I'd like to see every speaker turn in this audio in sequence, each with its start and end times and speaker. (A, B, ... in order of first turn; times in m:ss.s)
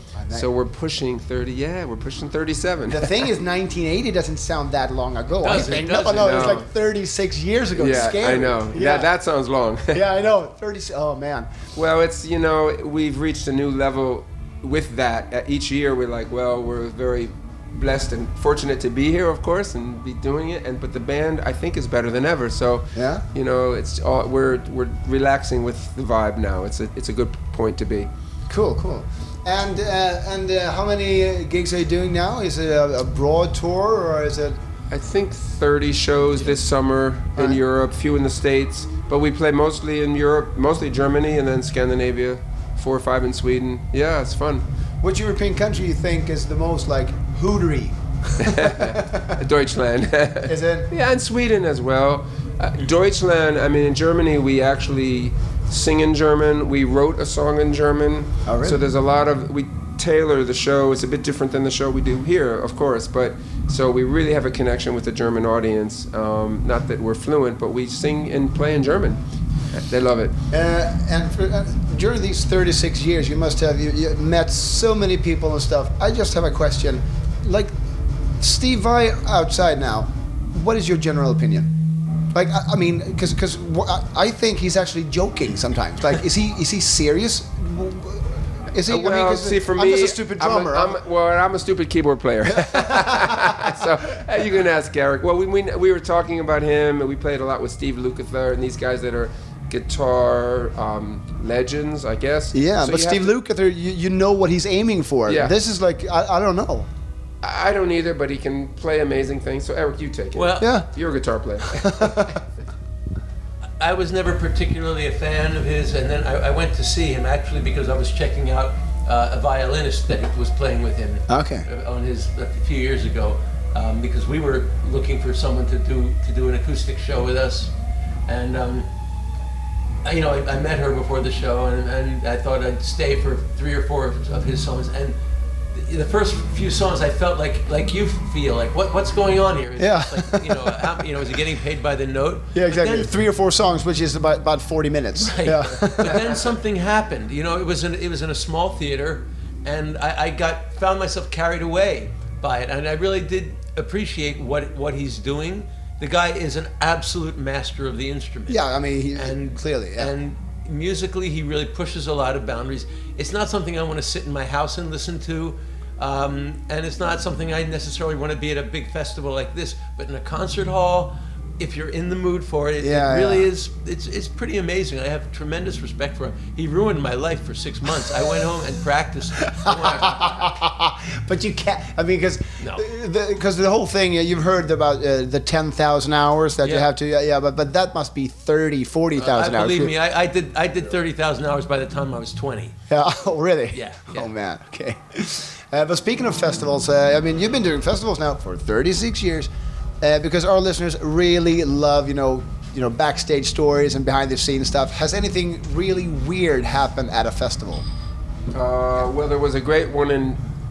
0:00.1-0:00.5 A
0:00.3-0:03.3 B
0:02.9-0:09.1 A
0:05.4-0:06.6 C
0:06.1-0:06.7 B
0:07.7-0:10.0 B
0:09.9-0:11.5 A
0:11.7-0:28.1 B
0:22.9-0:23.2 A
0:28.5-0:34.6 A
0:34.9-0:44.6 B
0:45.0-0:49.4 A
0:48.4-1:09.2 B
0:50.4-0:50.9 A
0:58.4-0:58.8 A
1:09.7-1:10.3 B
1:10.5-1:17.7 A
1:18.4-1:21.7 A
1:22.3-1:31.0 A
1:28.9-1:43.4 B
1:32.5-1:33.5 A
1:42.5-1:46.9 A
1:45.3-1:45.5 B
1:47.4-1:52.3 B
1:50.3-1:50.7 C
1:50.6-1:50.9 A
1:51.8-1:52.4 A
1:53.8-2:07.7 C
2:01.3-2:01.7 A
2:08.3-2:08.9 C
2:10.0-2:15.2 C
2:15.7-2:23.1 C
2:19.8-2:20.8 A
2:22.5-2:26.3 A
2:25.2-3:00.4 C
2:38.5-2:40.1 A
2:52.8-2:53.5 A
2:59.5-3:09.9 A
3:06.6-3:06.9 C
3:09.2-3:12.8 C
3:12.9-3:19.5 A
3:13.7-3:14.3 C
3:20.0-3:27.8 A
3:28.5-3:30.4 B